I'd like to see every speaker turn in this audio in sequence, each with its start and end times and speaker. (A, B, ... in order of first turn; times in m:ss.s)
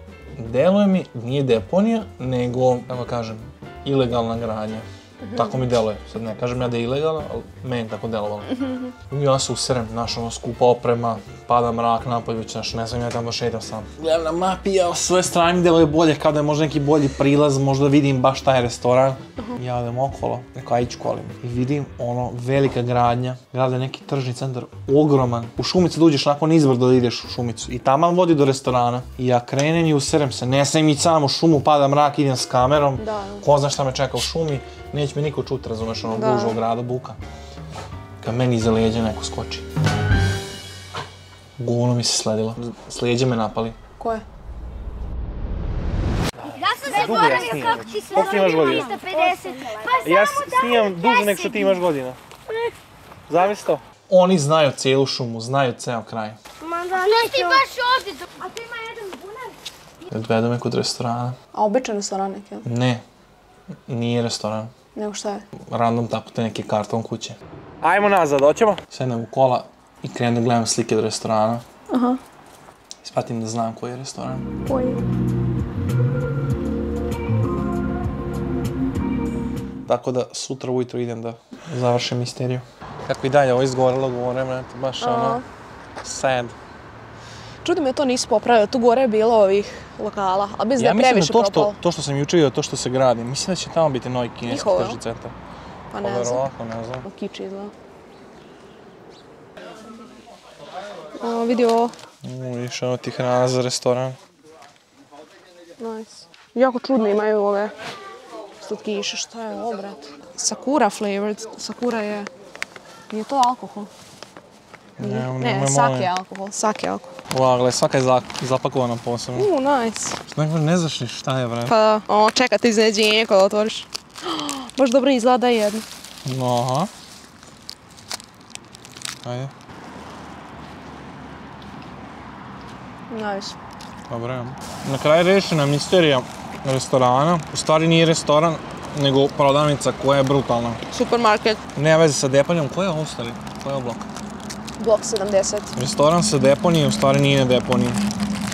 0:00.4-0:37.2 A
0:05.2-0:05.6 B
0:08.6-0:08.9 B
0:33.0-0:33.5 B
0:36.0-0:36.6 B
0:38.2-0:39.6 A
0:41.6-0:43.8 A
0:44.0-0:44.2 B
0:46.4-0:48.9 A
0:46.6-0:51.3 C
0:47.6-0:49.7 B
0:50.0-0:52.2 A
0:53.3-0:56.4 A
0:56.8-0:57.6 B
0:56.9-0:59.5 C
1:00.1-1:01.4 A
1:01.5-1:02.6 B
1:02.6-1:03.0 A
1:03.9-1:04.7 A
1:04.9-1:05.4 B
1:05.6-1:11.6 A
1:11.9-1:12.2 B
1:13.0-1:14.5 A
1:14.6-1:15.0 B
1:19.9-1:25.4 A
1:25.0-1:25.4 B
1:26.0-1:26.5 A
1:27.6-1:31.8 B
1:30.8-1:35.3 A
1:34.5-1:35.0 B
1:35.9-1:36.4 B
1:36.0-1:37.1 A
1:37.0-1:37.7 B
1:41.2-1:41.9 B
1:42.2-1:44.2 A
1:45.8-1:47.7 B
1:48.6-1:52.3 B
1:53.1-1:53.9 B
1:55.0-1:56.1 A
1:55.0-1:57.1 B
1:57.3-1:59.5 A
1:59.3-2:00.2 B
2:00.2-2:01.7 A
2:01.7-2:05.8 B
2:06.2-2:06.9 A
2:09.2-2:09.5 A
2:13.1-2:13.6 B
2:14.1-2:20.8 A
2:20.9-2:21.6 B
2:21.7-2:24.1 A
2:24.8-2:25.7 B
2:25.8-2:28.0 A